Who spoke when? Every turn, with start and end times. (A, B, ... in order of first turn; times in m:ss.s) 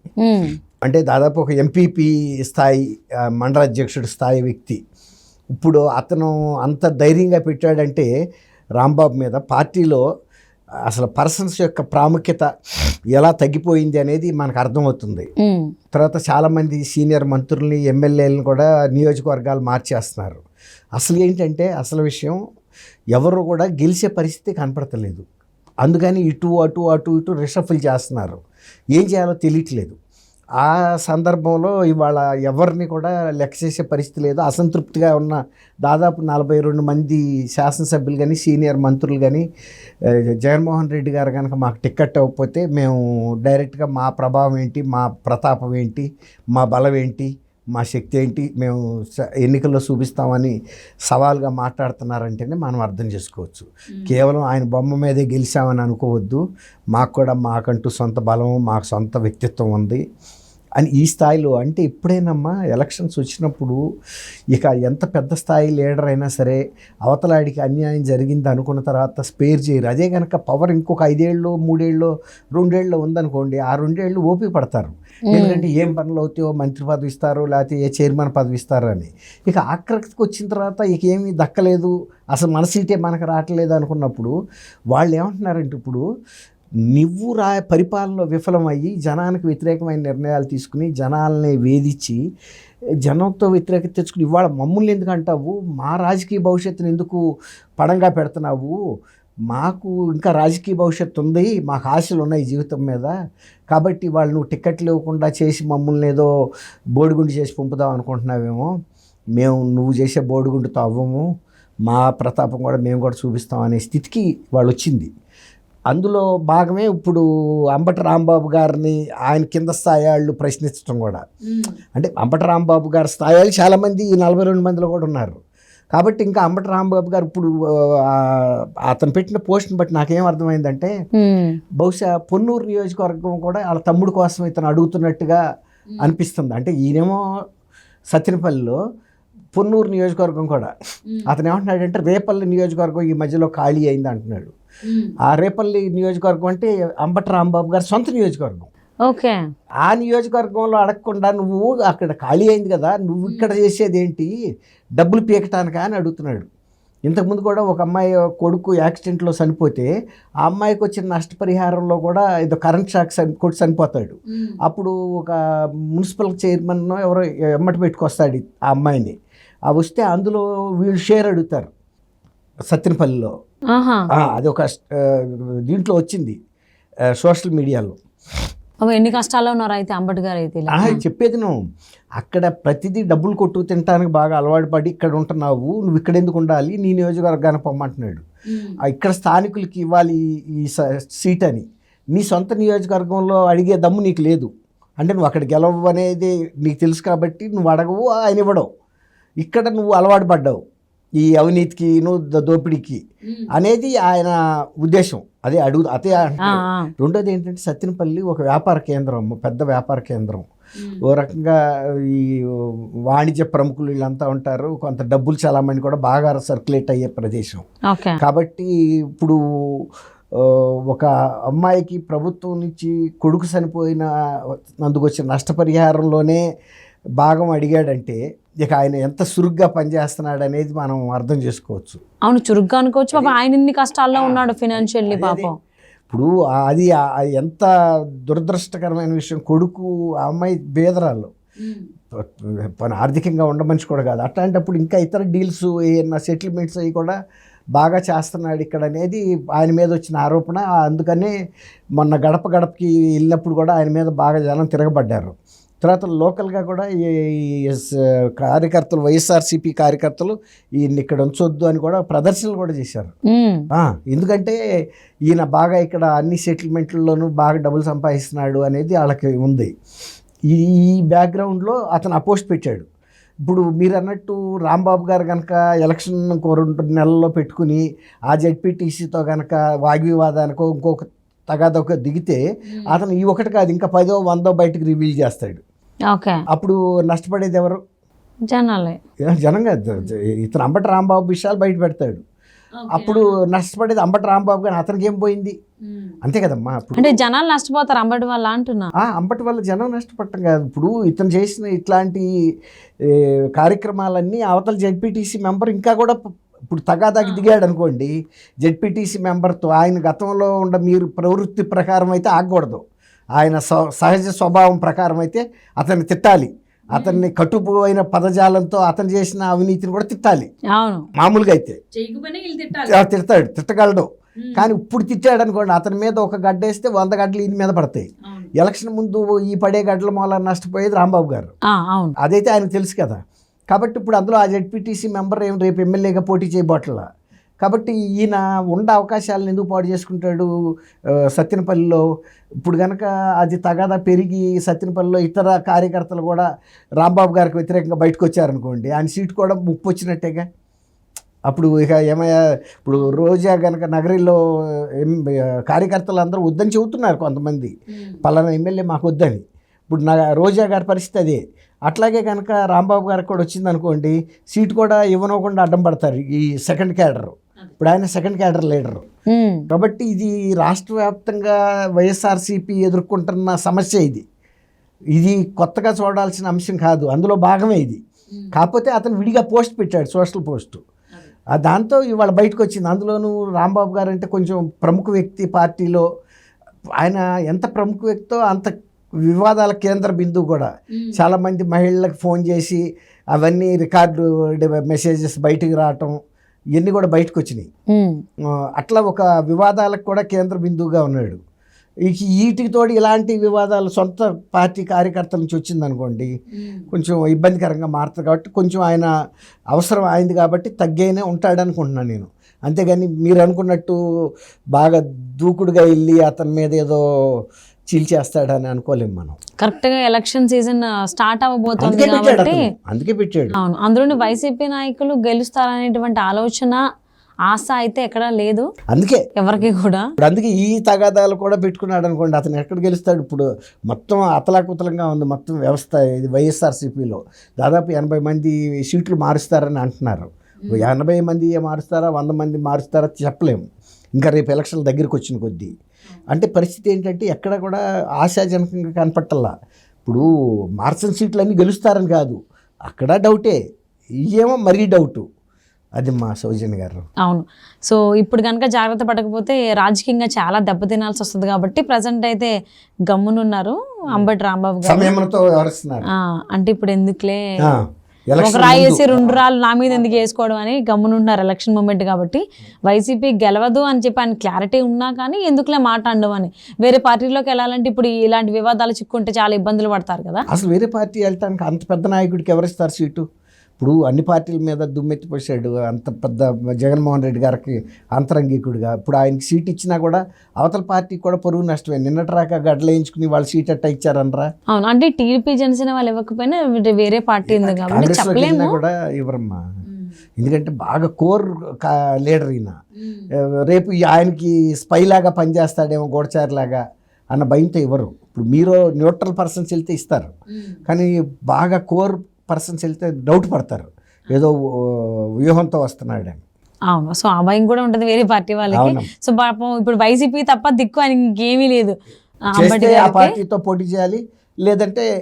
0:00.2-0:00.5 A
0:00.8-0:04.8 B
0:05.6-0:08.1 B
0:08.8-0:10.0 B
0:10.9-0:12.5 B
0:13.1-0:15.3 B
0:15.4-0:15.7 A
0:15.9-0:20.4 B
0:21.0-0:22.4 B
0:23.1-0:25.2 B
0:25.8-0:28.4 B
0:28.9-0:30.0 B
0:30.6-0:39.4 B
0:40.0-0:48.8 B
0:49.4-0:50.5 B
0:51.1-0:56.4 B
0:56.9-1:00.0 B
1:00.8-1:03.8 B
1:04.5-1:24.3 B
1:15.3-1:15.6 A
1:24.9-1:26.0 B
1:26.9-1:32.2 B
1:33.0-1:37.2 B
1:37.8-1:38.8 B
1:39.5-1:43.1 B
1:43.7-1:46.3 B
1:47.0-1:48.7 B
1:49.4-1:51.2 B
1:51.9-1:55.1 B
1:55.9-1:57.2 B
1:57.7-2:01.2 B
2:01.5-2:01.7 A
2:01.9-2:05.4 B
2:05.9-2:10.9 B
2:11.1-2:11.6 A
2:11.8-2:15.4 B
2:16.0-2:17.2 B
2:18.1-2:18.8 B
2:19.5-2:20.7 B
2:21.3-2:24.5 B
2:24.9-2:25.1 A
2:25.2-2:28.7 B
2:29.1-2:29.4 A
2:29.8-2:34.3 B
2:33.3-2:33.5 A
2:35.0-2:36.5 B
2:37.1-2:39.9 B
2:40.4-2:45.4 B
2:45.9-2:49.1 B
2:49.7-2:51.7 B
2:52.7-2:53.3 B
2:53.7-2:54.1 A
2:54.2-2:56.4 B
2:57.2-2:58.0 B
2:58.8-3:01.0 A
3:00.7-3:01.5 B
3:02.2-3:08.2 B
3:08.5-3:08.8 A
3:08.8-3:18.7 B
3:19.4-3:20.6 B
3:21.2-3:23.0 B
3:23.5-3:30.5 B
3:26.4-3:26.9 A
3:31.0-3:37.6 B
3:37.9-3:38.2 A
3:38.2-3:39.8 B
3:40.4-3:44.1 B
3:44.8-3:46.4 B
3:47.2-3:52.0 B
3:52.2-3:55.5 A
3:54.2-3:55.5 B
3:56.1-3:57.7 B
3:58.3-4:01.3 B
4:02.2-4:07.1 B
4:07.7-4:11.3 B
4:12.0-4:23.1 B
4:23.3-4:23.7 A
4:23.7-4:24.6 B
4:25.3-4:29.7 B
4:30.5-4:32.9 B
4:33.4-4:45.6 B
4:42.7-4:43.0 A
4:46.1-4:46.4 A
4:46.5-4:47.8 B
4:48.5-4:49.0 A
4:49.2-4:52.2 B
4:52.8-4:53.4 A
4:52.9-4:55.5 B
4:55.9-4:56.2 A
4:56.2-4:57.2 B
4:57.0-4:58.9 A
4:59.0-5:02.2 B
5:03.0-5:06.2 B
5:06.7-5:08.1 B
5:08.6-5:12.8 B
5:13.4-5:20.5 B
5:16.9-5:17.2 A
5:20.7-5:21.0 A
5:21.2-5:21.8 B
5:21.9-5:23.0 A
5:22.8-5:31.5 B
5:24.4-5:24.7 A
5:28.2-5:28.5 A
5:31.7-5:32.1 A
5:32.2-5:33.2 B
5:33.7-5:37.0 B
5:37.6-5:40.5 B
5:41.1-5:42.0 B
5:42.6-5:46.4 B
5:47.0-5:50.4 B
5:51.5-5:57.7 B
5:57.9-5:58.2 A
5:58.2-6:09.0 B
6:09.3-6:09.7 A
6:09.7-6:14.2 B
6:15.1-6:18.0 B
6:18.5-6:20.8 B
6:21.5-6:26.0 B
6:27.0-6:28.7 B
6:29.2-6:32.8 B
6:30.9-6:31.2 A
6:33.3-6:36.2 B
6:36.7-6:37.7 B
6:37.9-6:38.2 A
6:38.8-6:41.4 B
6:42.0-6:46.3 B
6:46.6-6:46.9 A
6:46.9-6:49.1 B
6:49.7-6:54.0 B
6:54.7-6:57.4 B
6:57.9-6:59.4 B
6:59.6-7:02.6 A
7:01.8-7:03.6 B
7:03.6-7:06.8 A
7:07.5-7:08.7 A
7:08.9-7:09.2 B
7:09.4-7:10.1 A
7:10.2-7:23.6 B
7:24.2-7:25.7 B
7:26.3-7:29.5 B
7:30.0-7:33.6 B
7:34.3-7:35.2 B
7:36.0-7:37.0 B
7:37.2-7:42.5 A
7:43.1-7:45.1 A
7:44.8-7:46.0 B
7:46.5-7:47.5 A
7:47.6-7:49.4 B
7:48.4-8:00.4 A
8:00.5-8:03.2 B
8:03.8-8:14.5 B
8:14.7-8:18.8 A
8:17.5-8:19.6 B
8:20.4-8:22.7 B
8:23.0-8:23.3 A
8:23.4-8:30.3 B
8:30.9-8:36.4 B
8:36.9-8:42.0 A
8:38.7-8:39.1 B
8:42.5-8:43.3 A
8:42.5-8:45.0 B